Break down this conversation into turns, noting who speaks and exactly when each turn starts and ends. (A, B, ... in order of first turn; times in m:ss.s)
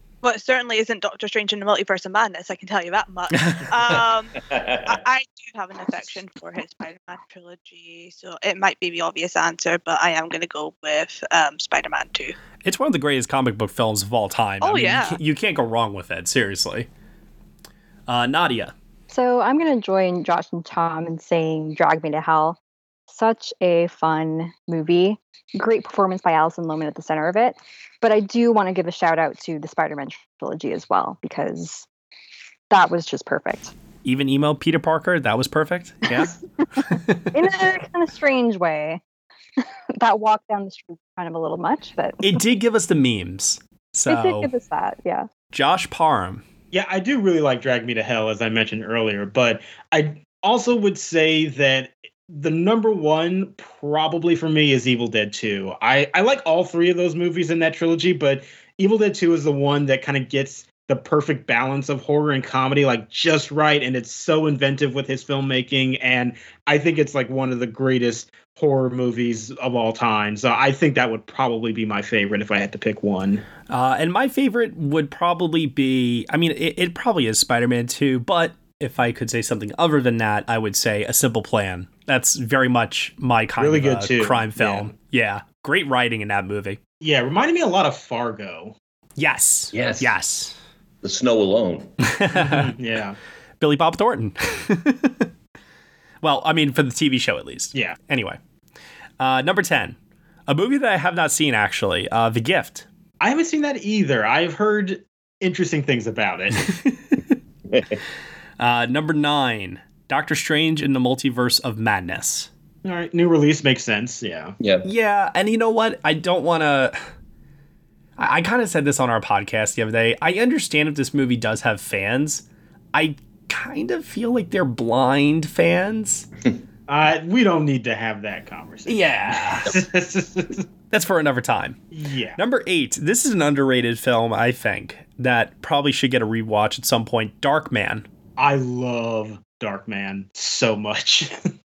0:00.2-0:12.4 A
0:03.3-0:03.6 B
0:04.5-0:05.0 C
0:12.6-0:16.9 B
0:14.6-0:15.2 A
0:18.1-0:18.7 B
0:19.1-0:31.9 D
0:32.7-0:33.7 D
0:34.0-0:36.3 B
0:36.9-0:37.2 B
0:37.3-0:39.0 D
0:39.6-0:42.2 D
0:42.2-0:44.5 B
0:44.1-0:45.3 D
0:45.5-0:46.4 B
0:46.7-1:13.4 E
1:13.7-1:26.8 B
1:23.6-1:24.9 E
1:27.0-1:28.7 E
1:29.2-1:30.5 B
1:29.7-1:30.1 C
1:31.0-1:31.9 C
1:32.1-1:32.7 B
1:32.4-1:33.2 E
1:33.6-1:35.3 B
1:36.2-1:38.4 B
1:39.2-1:40.0 B
1:40.5-1:42.9 B
1:43.2-1:46.6 E
1:46.7-1:47.2 B
1:47.7-1:48.0 C
1:48.6-1:52.5 B
1:52.8-1:54.5 E
1:54.6-1:54.8 C
1:54.8-1:57.0 B
1:58.2-2:06.3 B
2:06.9-2:10.6 E
2:08.9-2:09.8 B
2:10.9-2:11.8 B
2:11.9-2:12.4 E
2:12.4-2:18.0 B
2:18.4-2:21.3 E